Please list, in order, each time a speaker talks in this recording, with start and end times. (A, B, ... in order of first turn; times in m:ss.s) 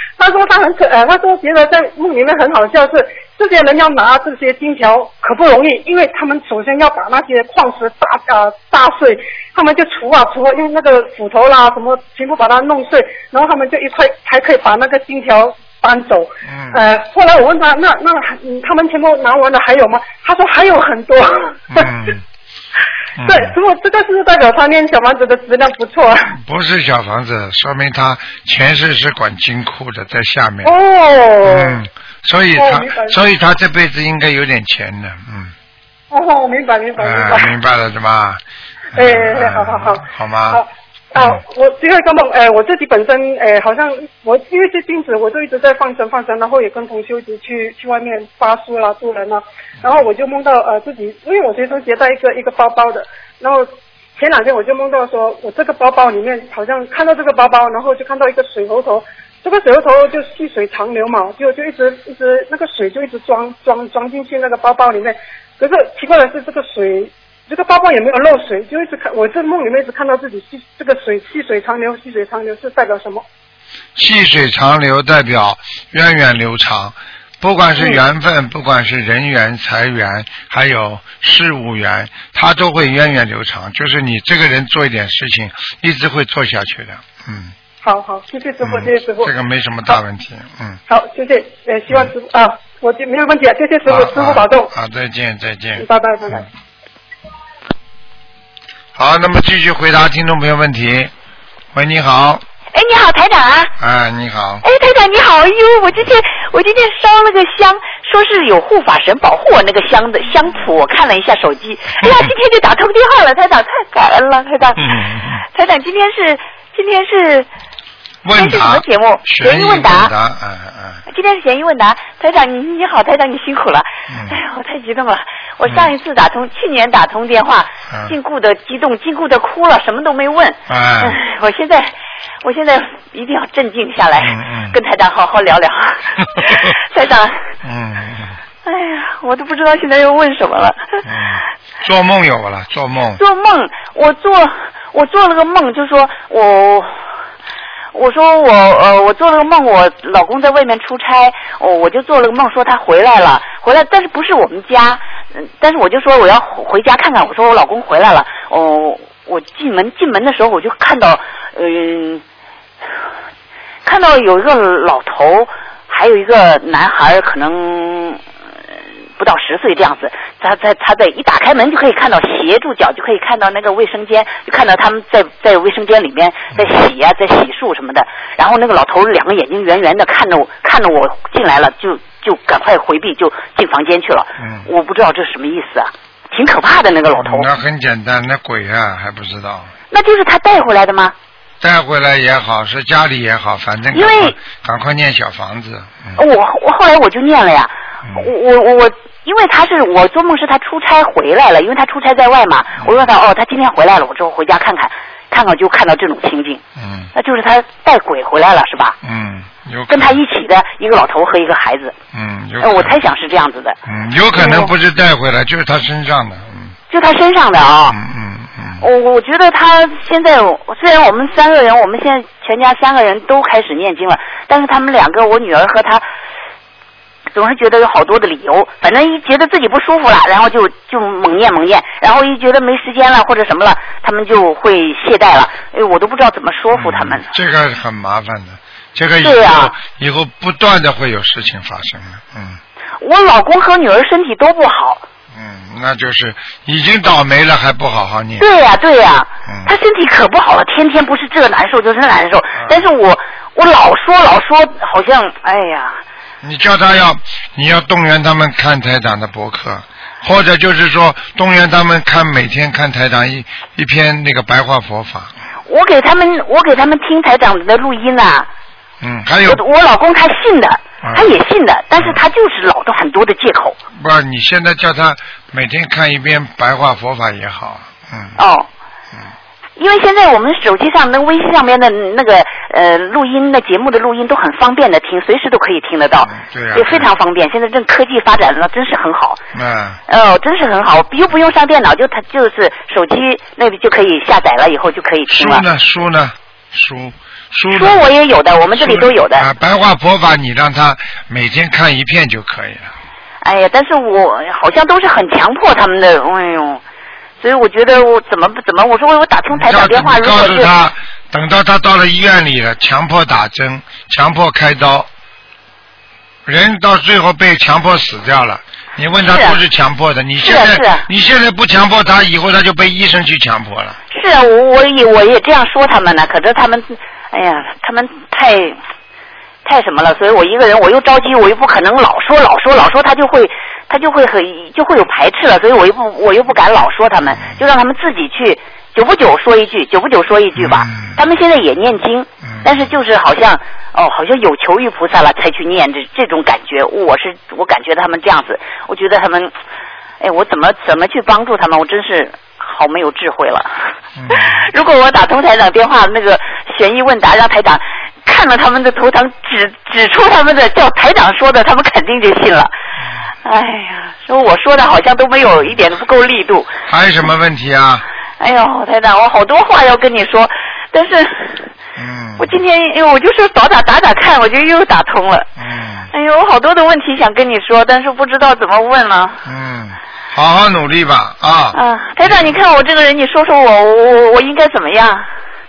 0:00.2-0:21.9 A
0:16.4-0:16.8 B
0:21.7-0:22.2 B
0:23.2-0:23.6 B
0:23.2-0:26.3 A
0:26.3-0:30.7 B
0:30.6-0:31.8 A
0:31.4-0:35.5 B
0:32.5-0:33.2 A
0:36.1-0:37.5 A
0:37.0-0:38.4 B
0:38.9-0:40.6 B
0:38.9-1:13.2 A
0:41.2-0:41.4 B
1:14.0-1:27.5 B
1:17.8-1:18.0 A
1:27.8-1:29.3 A
1:28.6-1:30.8 B
1:30.9-1:34.7 A
1:33.8-1:36.4 B
1:35.8-1:36.5 A
1:38.9-1:41.1 B
1:41.7-1:42.4 B
1:42.7-1:43.7 C
1:43.8-1:44.6 B
1:44.6-1:55.0 C
1:52.0-1:52.3 B
1:54.8-1:55.4 B
1:55.5-1:57.5 C
1:58.2-2:01.0 B
1:58.3-2:00.1 C
2:01.1-2:17.4 C
2:04.1-2:04.4 B
2:05.6-2:05.9 B
2:10.7-2:11.2 B
2:14.2-2:14.8 B
2:16.4-2:16.6 B
2:17.6-2:18.4 B
2:18.6-2:21.0 C
2:21.0-2:23.2 B
2:23.2-2:26.9 C
2:27.9-2:42.2 C
2:43.8-2:48.2 C
2:49.2-3:07.5 C
3:04.4-3:04.7 B
3:07.1-3:09.7 B
3:09.9-3:11.1 C
3:11.6-3:16.2 B
3:13.9-3:14.4 C
3:16.2-3:26.6 C
3:22.8-3:23.1 B
3:26.8-3:27.1 B
3:27.1-3:29.0 C
3:29.0-3:30.2 B
3:29.9-3:31.9 C
3:32.1-3:33.0 B
3:32.6-3:33.8 C
3:33.9-3:36.7 B
3:34.3-3:34.7 C
3:36.9-3:38.0 C
3:37.9-3:38.8 B
3:38.8-3:46.0 C
3:47.3-3:57.3 C
3:56.7-4:02.6 B
3:59.2-3:59.8 C
4:03.0-4:05.0 C
4:05.3-4:08.4 B
4:08.4-4:16.0 C
4:09.5-4:09.7 B
4:12.6-4:12.8 B
4:16.4-4:25.3 B
4:25.7-4:28.5 C
4:29.0-4:29.6 B
4:29.4-4:33.8 C
4:31.0-4:31.4 B
4:32.0-4:32.2 B
4:33.9-4:38.4 B
4:38.4-4:38.7 C
4:39.8-4:49.4 C
4:46.2-4:47.1 B
4:49.5-4:50.0 B
4:50.1-4:55.6 C
4:55.3-4:58.0 B
4:57.7-4:59.5 C
4:58.7-5:02.9 B
5:03.4-5:06.8 C
5:07.4-5:10.7 C
5:09.5-5:15.1 B
5:16.4-5:24.0 B
5:19.2-5:19.6 C
5:20.4-5:21.0 C
5:24.1-5:28.8 C
5:29.6-5:49.5 C
5:40.6-5:41.2 B
5:42.4-5:42.9 B
5:50.2-5:53.7 C
5:54.2-5:54.6 B
5:54.3-6:02.7 C
6:03.4-6:06.7 C
6:06.9-6:08.0 B
6:08.4-6:11.7 C
6:12.0-6:12.5 B
6:12.4-6:15.5 C
6:15.6-6:16.1 B
6:16.1-6:19.4 C
6:19.4-6:22.6 B
6:21.7-6:25.3 C